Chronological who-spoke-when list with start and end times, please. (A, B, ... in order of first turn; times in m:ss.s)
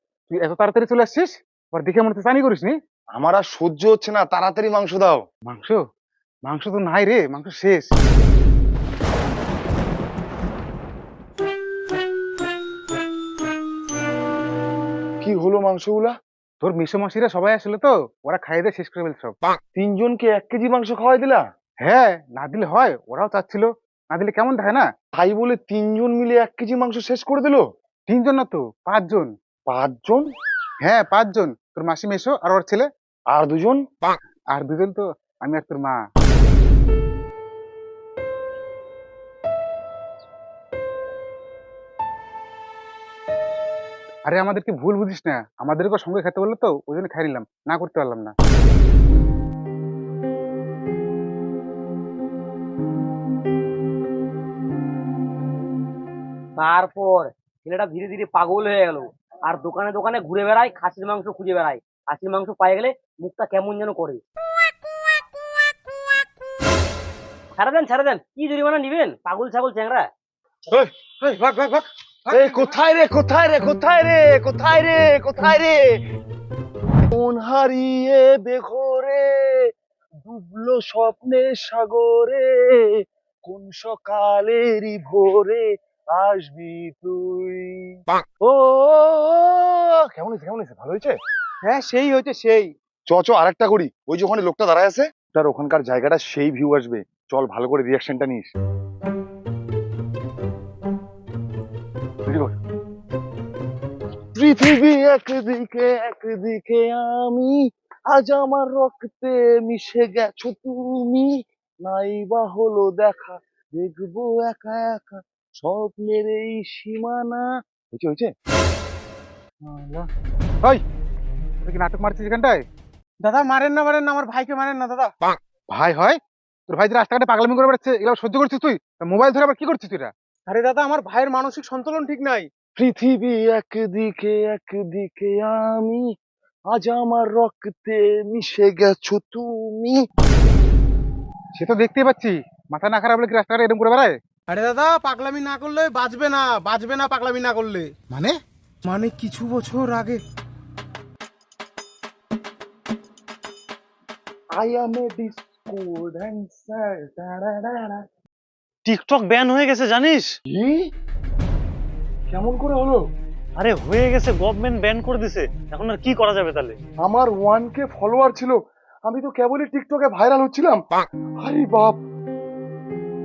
0:00.3-0:02.7 A
0:03.1-0:05.2 B
0:05.5-0:05.8 A
0:06.4-0:07.9 A
0:15.2-0:16.1 B
0:16.6-0:19.4 A
0:19.7-0:21.4 B
0:21.8-0:24.8 A
0:25.2-0:27.6 B
0:28.1-0:29.3 A
0:29.7-0:30.2 B
0:30.8-0:32.9 A
0:33.3-0:33.8 B
0:34.5-0:36.0 A
0:44.2-0:48.3 A
0:56.6-1:04.2 C
1:07.6-1:10.1 C
1:11.2-1:11.7 D
1:12.3-1:15.8 B
1:17.1-1:19.6 B
1:20.2-1:22.7 B
1:23.4-1:25.6 B
1:26.1-1:27.7 B
1:28.4-1:31.2 B
1:31.7-1:32.7 D
1:33.1-1:38.5 B
1:42.3-1:42.5 B
1:44.3-1:47.6 B
1:48.1-1:51.3 B
1:51.8-1:58.3 B
1:59.6-2:00.1 A
2:01.6-2:02.6 A
2:03.2-2:03.9 D
2:05.7-2:10.1 A
2:10.6-2:12.4 D
2:12.8-2:16.0 B
2:16.7-2:20.0 B
2:21.5-2:24.2 A
2:24.5-2:27.9 D
2:34.6-2:38.0 B
2:38.8-2:40.3 E
2:40.5-2:40.8 B
2:42.3-2:43.0 B
2:43.6-2:46.8 E
2:47.0-2:50.8 B
2:51.4-2:52.0 B